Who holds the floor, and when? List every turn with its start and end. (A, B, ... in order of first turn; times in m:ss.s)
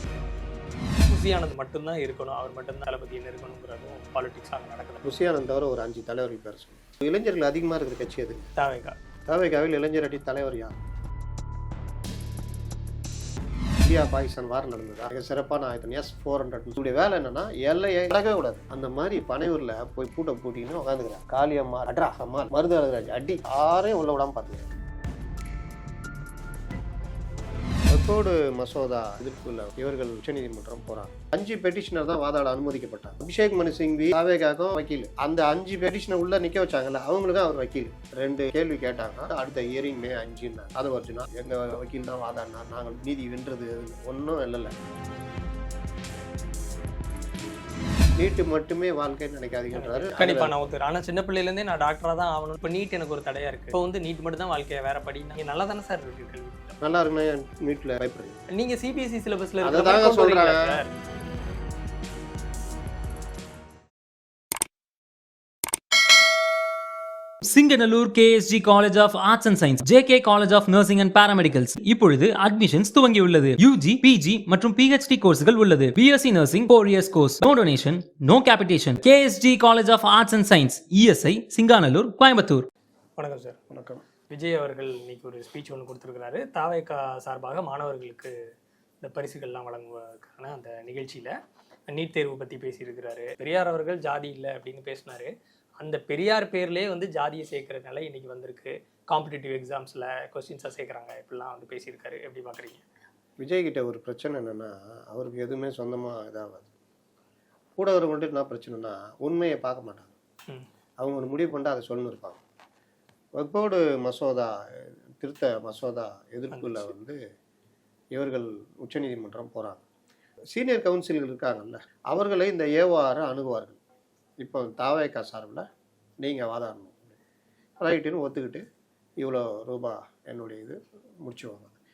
0:01.1-0:05.0 A
0:05.0-0:08.5 B
0:08.6-0:09.0 A
0:09.2-0:10.8 B
0:13.8-0:24.7 B
0:27.9-0:44.7 B
0:48.2-0:50.5 B
0:49.7-0:56.8 A
0:56.8-0:58.4 B
0:58.5-1:00.9 A
0:59.6-1:00.8 B
1:07.4-1:22.7 C
1:23.2-1:23.6 A
1:23.7-1:24.0 B
1:24.3-1:28.3 A
1:29.0-1:31.3 A
1:31.9-1:42.8 A
1:43.4-1:46.7 B
1:47.8-1:50.1 B
1:51.0-1:52.4 B
1:53.4-1:57.2 B
1:56.5-1:56.9 A
1:58.1-1:59.8 B
2:00.5-2:03.8 B
2:04.4-2:05.6 B
2:06.2-2:07.1 B
2:07.8-2:08.6 B
2:09.2-2:11.7 B